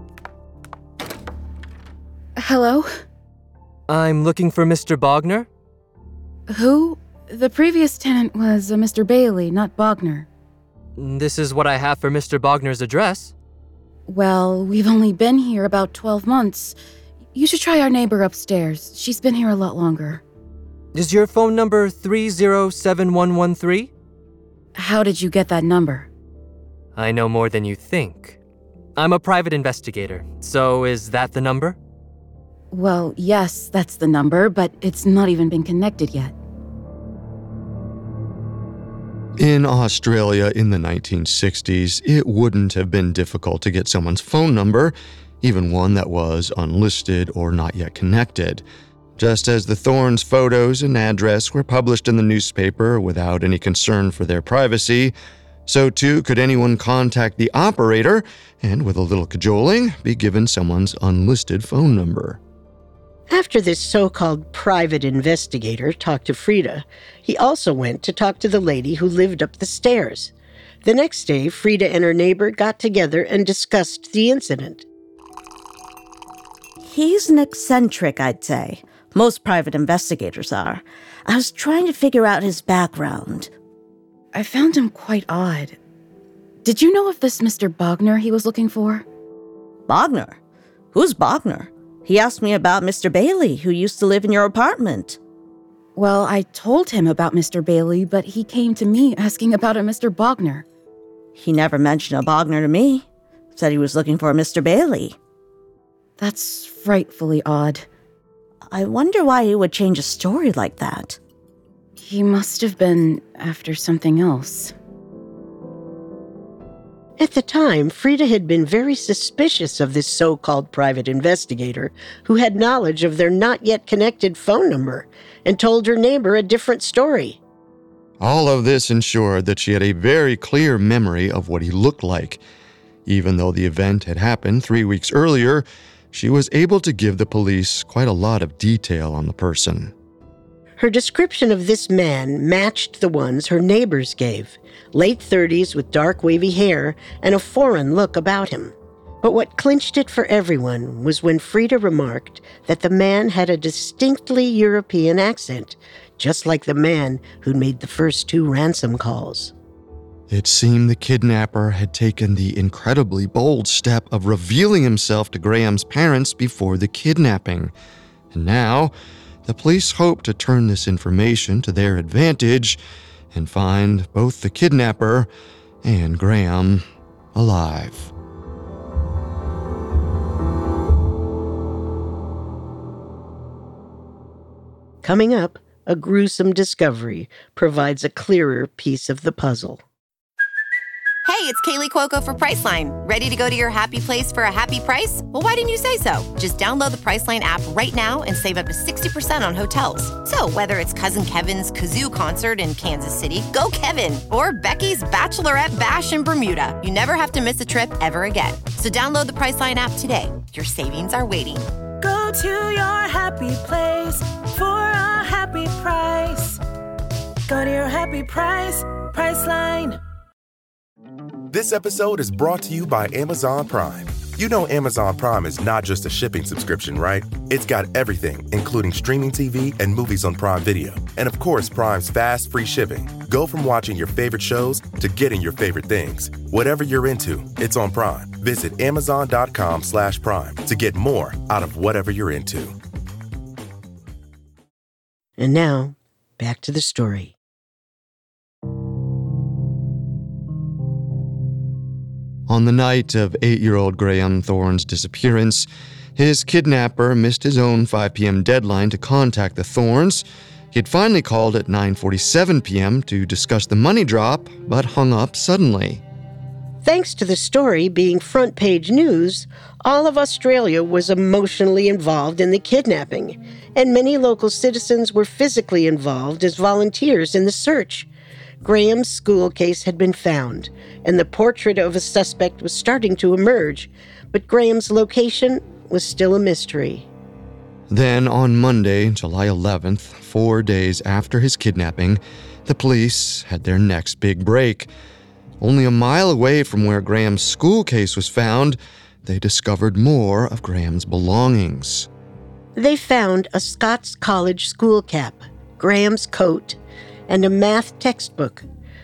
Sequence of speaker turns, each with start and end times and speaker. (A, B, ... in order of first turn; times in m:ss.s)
0:02.4-0:02.9 A
0:03.9-0:05.5 B
0:06.5-0:10.3 A
0:11.0-0:13.3 B
0:14.1-0:16.8 A
0:17.4-0:20.2 A
0:20.9-0:23.9 B
0:24.8-0:26.1 A
0:27.0-0:28.4 B
0:29.0-0:31.8 B
0:32.7-0:36.3 A
0:39.4-0:48.6 C
0:49.2-0:55.2 C
0:55.7-1:02.4 C
1:03.3-1:10.3 D
1:10.8-1:14.8 D
1:16.8-1:23.5 E
1:24.3-1:25.8 A
1:26.6-1:29.0 A
1:29.9-1:30.4 E
1:30.9-1:35.2 E
1:36.0-1:40.6 A
1:41.3-1:45.2 E
1:46.2-1:47.9 A
1:48.7-1:51.2 E
1:52.0-1:54.7 A
1:57.2-2:07.4 D
2:08.2-2:12.4 C
2:13.1-2:19.9 C
2:20.8-2:39.5 D
2:40.3-2:47.7 C
2:48.3-2:48.9 C
2:49.4-2:52.8 C
2:53.3-2:55.3 C
2:55.8-2:58.1 C
3:05.0-3:09.8 D
3:11.2-3:31.7 F
3:32.0-3:36.6 G
3:37.5-3:40.0 G
3:41.5-4:02.8 H
4:05.4-4:07.3 D
4:12.5-4:26.0 C
4:26.8-4:38.1 D
4:38.6-4:47.1 D
4:47.9-4:54.9 C
4:55.6-5:02.1 C
5:02.8-5:06.8 D
5:07.3-5:08.7 D